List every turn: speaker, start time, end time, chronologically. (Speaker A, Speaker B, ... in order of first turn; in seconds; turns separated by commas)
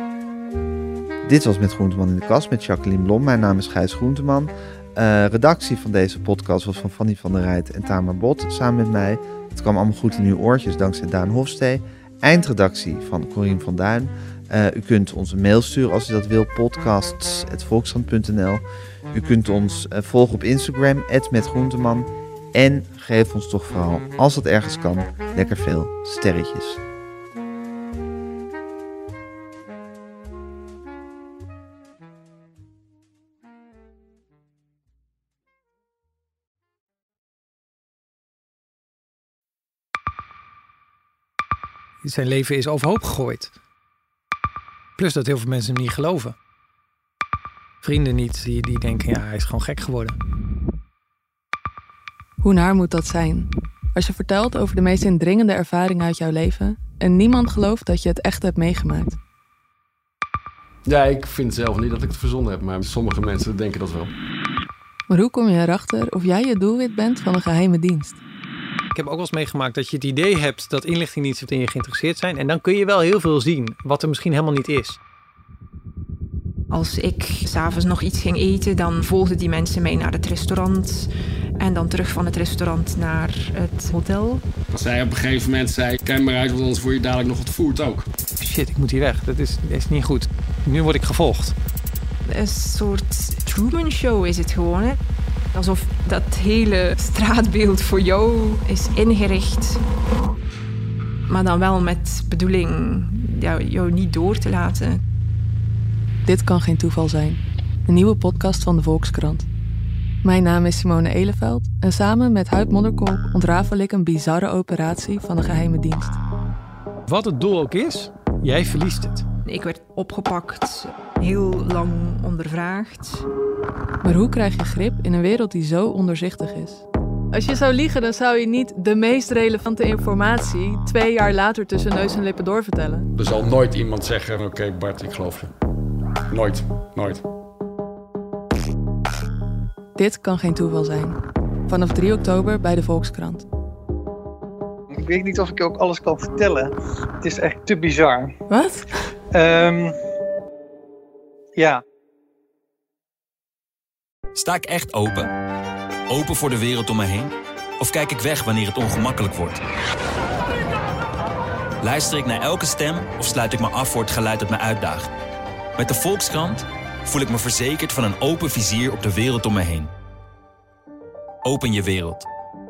Speaker A: 1.2-26.8, Speaker B: 42.0-43.5, Speaker B: 45.0-46.4, Speaker B: 47.8-50.2, Speaker C: 52.4-59.2, Speaker D: 60.9-64.1, Speaker C: 65.1-68.2, Speaker B: 68.9-75.0, Speaker E: 76.7-84.5, Speaker D: 84.7-88.1, Speaker B: 88.4-91.5, Speaker E: 92.2-95.0, Speaker E: 95.5-99.8, Speaker E: 101.3-105.0, Speaker C: 106.2-109.5, Speaker C: 110.2-116.2, Speaker B: 117.1-119.3, Speaker E: 119.5-123.3, Speaker C: 124.0-133.1, Speaker D: 133.1-135.5, Speaker D: 136.3-137.2, Speaker C: 140.0-143.4, Speaker F: 144.9-148.3, Speaker C: 148.5-148.9, Speaker F: 149.3-150.0, Speaker F: 151.6-151.8, Speaker G: 154.3-155.3, Speaker G: 156.1-159.6, Speaker G: 161.8-165.1, Speaker G: 165.8-169.9, Speaker G: 171.4-172.3